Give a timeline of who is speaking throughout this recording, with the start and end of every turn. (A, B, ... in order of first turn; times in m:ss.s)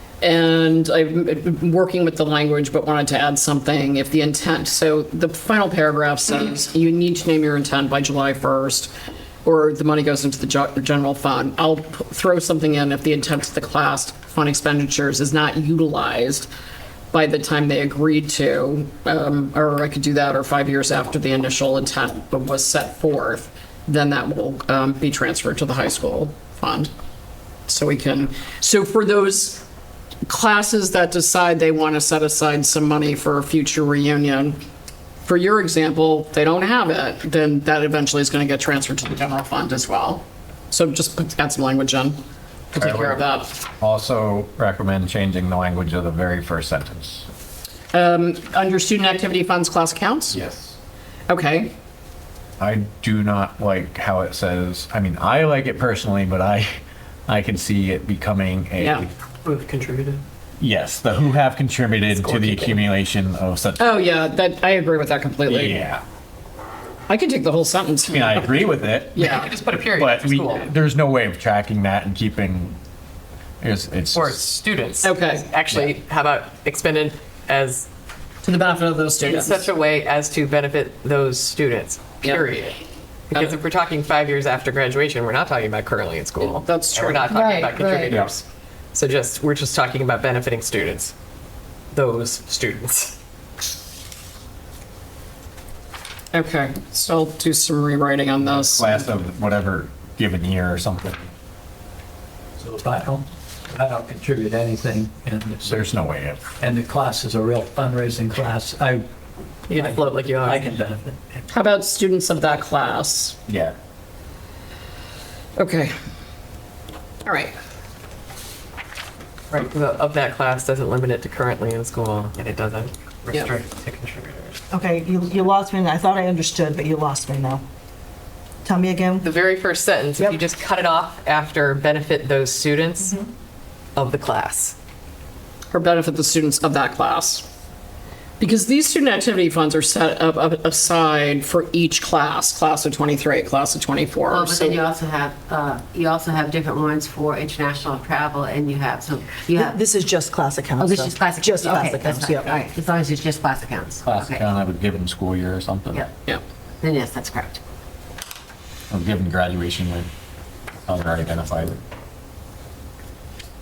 0:00.2-0:08.9 A
0:09.4-0:16.5 A
0:17.1-0:26.9 A
0:27.7-0:29.6 A
0:30.3-0:34.6 A
0:35.2-0:42.2 A
0:42.7-0:43.6 A
0:42.8-0:43.2 B
0:43.8-0:47.2 B
0:47.9-0:50.4 A
0:50.3-0:50.8 B
0:51.3-0:51.7 A
0:52.6-0:59.1 B
0:58.8-0:59.1 A
0:59.4-1:00.2 C
1:00.6-1:03.8 B
1:02.1-1:02.8 C
1:03.8-1:05.8 A
1:05.5-1:06.0 B
1:07.1-1:08.6 A
1:08.1-1:09.2 B
1:09.1-1:09.5 A
1:09.2-1:10.7 C
1:09.8-1:12.8 B
1:13.6-1:14.4 B
1:14.1-1:17.9 C
1:15.0-1:15.4 A
1:18.4-1:19.7 A
1:19.2-1:22.8 C
1:22.2-1:22.5 A
1:23.3-1:31.1 C
1:26.4-1:28.2 A
1:31.9-1:33.2 C
1:36.3-1:39.0 A
1:38.6-1:41.3 B
1:42.6-1:45.9 D
1:45.6-1:46.4 B
1:46.6-1:49.0 D
1:49.7-1:50.6 C
1:49.7-1:51.4 D
1:51.5-1:53.4 A
1:53.5-1:53.8 B
1:55.6-1:55.9 A
1:57.2-1:57.5 A
1:59.5-2:04.6 C
2:04.7-2:07.6 E
2:08.6-2:09.2 E
2:09.2-2:13.2 C
2:14.0-2:14.8 C
2:15.7-2:17.4 A
2:18.4-2:24.8 A
2:24.3-2:29.8 F
2:29.6-2:32.6 E
2:30.8-2:34.4 F
2:34.0-2:36.0 B
2:36.8-2:37.6 F
2:38.9-2:40.1 B
2:40.9-2:41.8 B